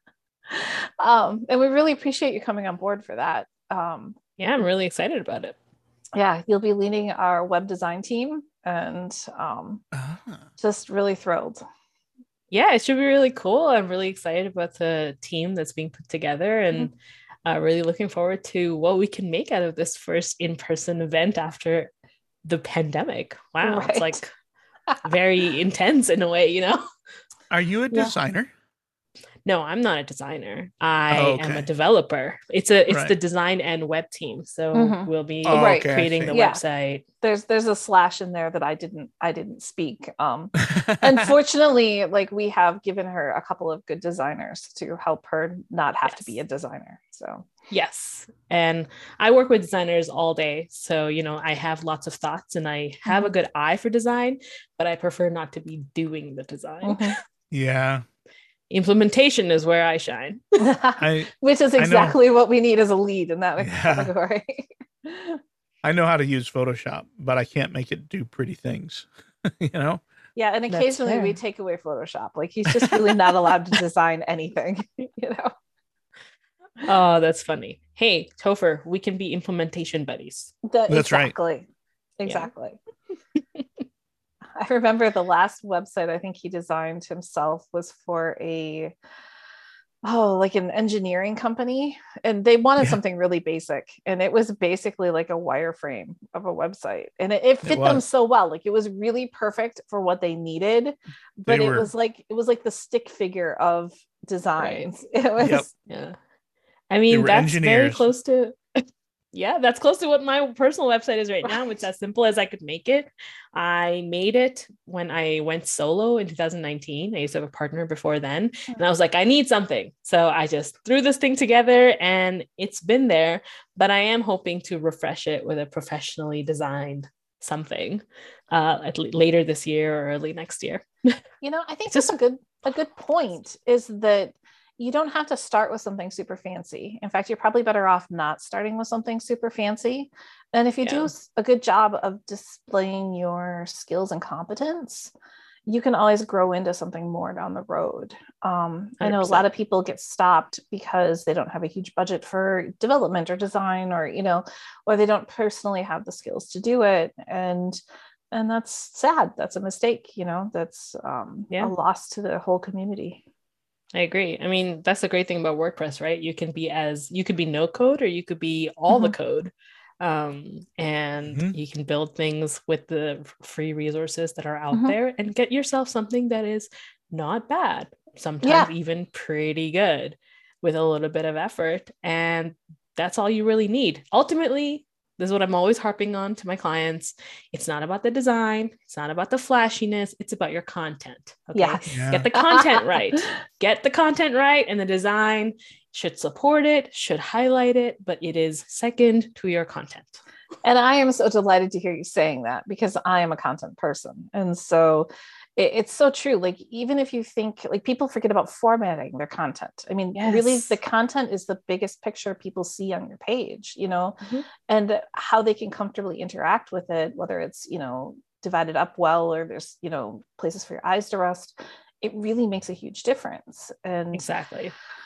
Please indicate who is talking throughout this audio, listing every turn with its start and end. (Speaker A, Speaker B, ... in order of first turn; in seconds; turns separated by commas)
Speaker A: 0.5-4.2, Speaker B: 4.4-5.6, Speaker A: 6.1-9.8, Speaker C: 9.9-10.4, Speaker A: 10.6-11.6, Speaker B: 12.5-16.9, Speaker B: 17.4-21.9, Speaker B: 22.4-24.3, Speaker A: 23.6-24.2, Speaker B: 25.0-26.8, Speaker C: 27.5-28.5, Speaker B: 29.4-37.0, Speaker C: 31.1-31.6, Speaker C: 32.9-33.1, Speaker A: 34.7-36.6, Speaker C: 35.4-36.3, Speaker A: 37.2-47.5, Speaker C: 40.7-41.2, Speaker B: 46.0-46.3, Speaker B: 47.7-57.0, Speaker A: 53.0-53.3, Speaker A: 56.8-57.1, Speaker C: 57.5-58.0, Speaker B: 58.7-60.4, Speaker A: 60.6-65.4, Speaker C: 61.0-62.2, Speaker C: 63.6-64.1, Speaker C: 65.8-70.0, Speaker A: 70.3-75.5, Speaker B: 70.7-71.4, Speaker B: 76.8-80.5, Speaker A: 80.6-81.7, Speaker C: 80.9-81.3, Speaker A: 82.2-82.8, Speaker B: 83.3-83.6, Speaker A: 84.6-88.9, Speaker A: 90.0-105.7, Speaker C: 97.6-98.0, Speaker C: 101.5-101.9, Speaker B: 104.6-104.9, Speaker C: 105.4-105.7, Speaker B: 105.8-106.2, Speaker B: 106.9-131.2, Speaker C: 107.1-108.1, Speaker A: 131.4-145.1, Speaker B: 131.9-132.1, Speaker B: 140.8-141.1, Speaker A: 145.7-157.8, Speaker B: 149.0-149.4, Speaker A: 158.3-163.2, Speaker B: 163.9-200.2, Speaker A: 168.9-169.2, Speaker C: 171.3-171.6, Speaker A: 178.4-178.7, Speaker A: 191.5-193.2, Speaker C: 191.9-192.2, Speaker A: 200.6-224.3, Speaker B: 210.2-210.8, Speaker B: 224.1-224.7